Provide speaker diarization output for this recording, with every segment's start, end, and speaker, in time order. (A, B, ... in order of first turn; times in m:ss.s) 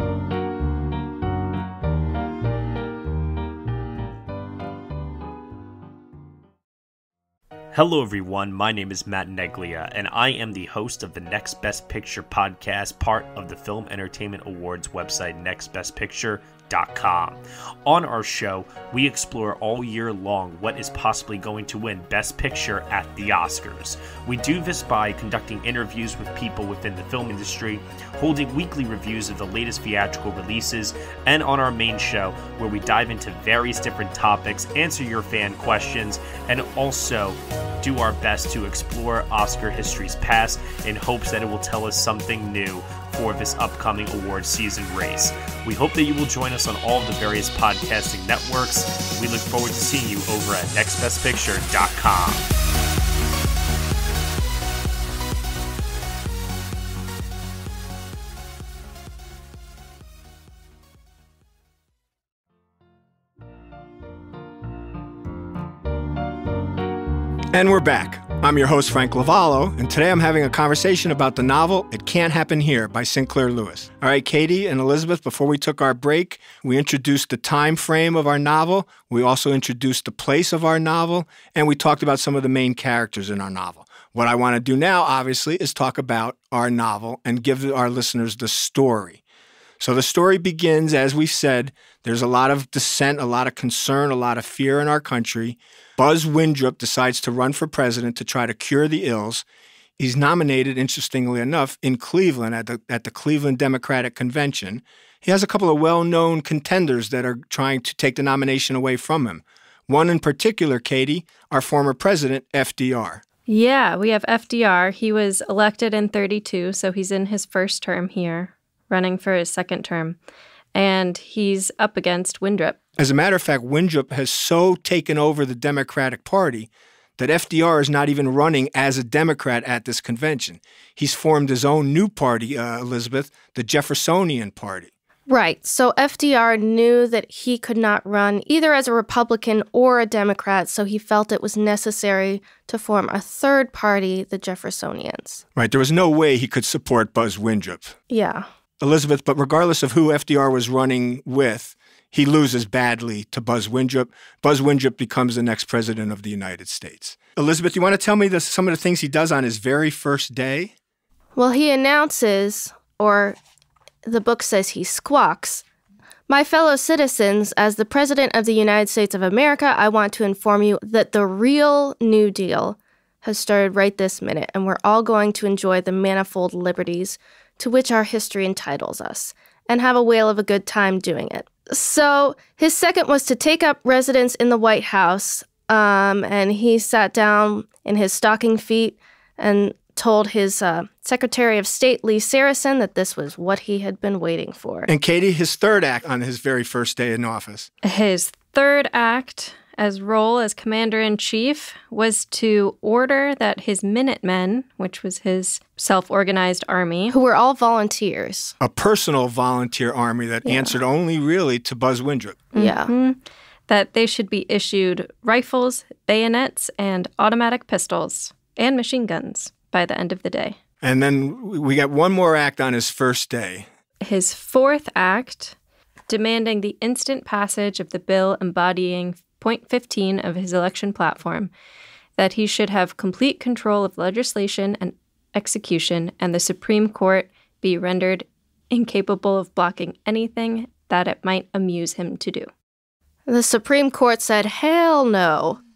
0:07.7-0:52.5 A
1:07.5-1:29.2 B
1:29.8-1:39.4 B
1:40.0-1:53.2 B
1:53.5-2:00.2 C
2:00.7-2:02.8 C
2:03.0-2:14.9 B
2:15.3-2:25.4 D
2:25.5-2:28.0 B
2:28.1-2:28.4 D
2:28.8-2:40.7 B
2:41.4-2:43.4 D
2:44.0-2:45.6 D
2:46.3-3:14.9 D
3:14.9-3:17.7 B
3:17.8-3:27.1 C
3:27.1-3:28.5 D
3:28.6-3:32.4 B
3:30.4-3:30.7 D
3:32.5-3:32.9 D
3:32.5-3:40.6 C
3:40.8-3:43.7 B
3:44.0-3:45.5 C
3:46.1-3:51.5 C
3:52.2-4:02.5 C
4:03.3-4:05.6 D